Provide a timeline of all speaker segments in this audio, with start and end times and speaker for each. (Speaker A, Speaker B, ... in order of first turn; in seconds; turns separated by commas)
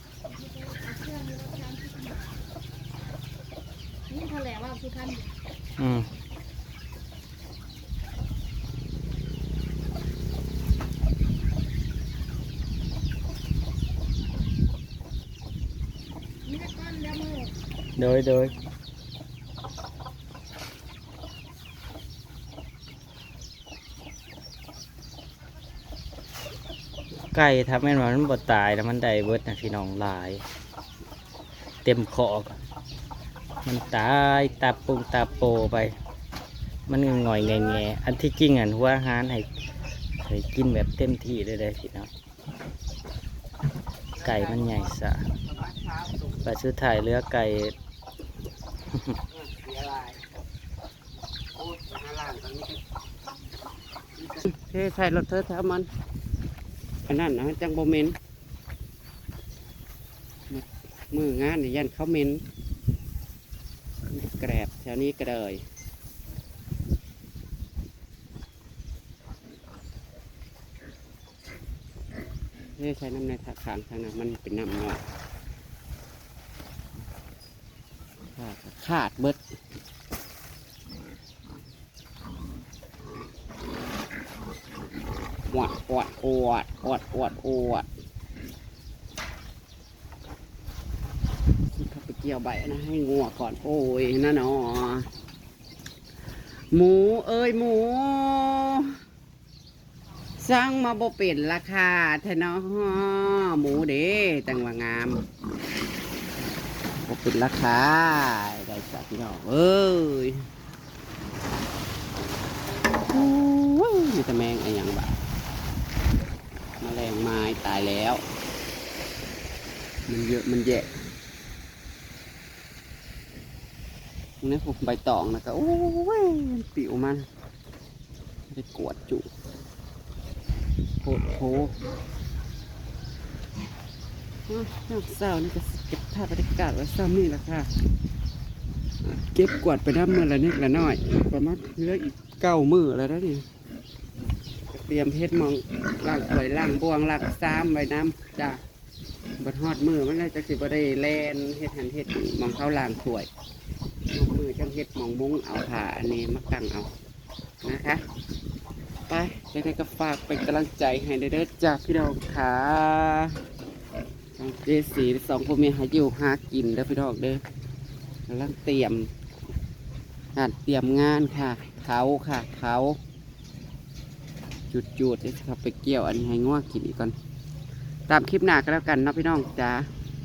Speaker A: 0.3-2.4, Speaker A: 4.1-5.3, Speaker B: 5.8-6.1, Speaker A: 16.4-17.5, Speaker B: 18.0-18.5, Speaker B: 27.3-30.4, Speaker B: 31.8-32.6, Speaker B: 33.6-35.9, Speaker C: 33.9-35.6, Speaker B: 36.9-39.5, Speaker C: 37.1-37.8, Speaker B: 40.2-42.1, Speaker C: 44.1-46.5, Speaker B: 44.2-45.2, Speaker B: 46.4-47.8, Speaker C: 49.3-50.2, Speaker C: 51.5-52.8, Speaker C: 54.2-55.9, Speaker C: 57.0-58.2, Speaker C: 60.5-62.4, Speaker C: 64.1-65.6, Speaker C: 72.8-75.0, Speaker C: 78.3-79.4, Speaker C: 85.5-87.9, Speaker C: 91.7-95.1, Speaker C: 96.7-99.0, Speaker C: 100.4-105.2, Speaker C: 107.0-110.5, Speaker C: 113.1-115.2, Speaker C: 116.8-118.2, Speaker C: 120.1-120.9, Speaker C: 124.4-127.3, Speaker C: 128.5-129.3, Speaker C: 131.0-131.7, Speaker C: 134.5-137.7, Speaker C: 139.0-143.5, Speaker C: 144.7-148.6, Speaker C: 149.4-153.3, Speaker C: 154.1-156.9, Speaker C: 157.6-158.0, Speaker C: 159.1-163.4, Speaker C: 164.4-167.4, Speaker C: 168.3-169.1, Speaker C: 170.3-173.0, Speaker C: 174.7-177.1, Speaker C: 178.1-179.9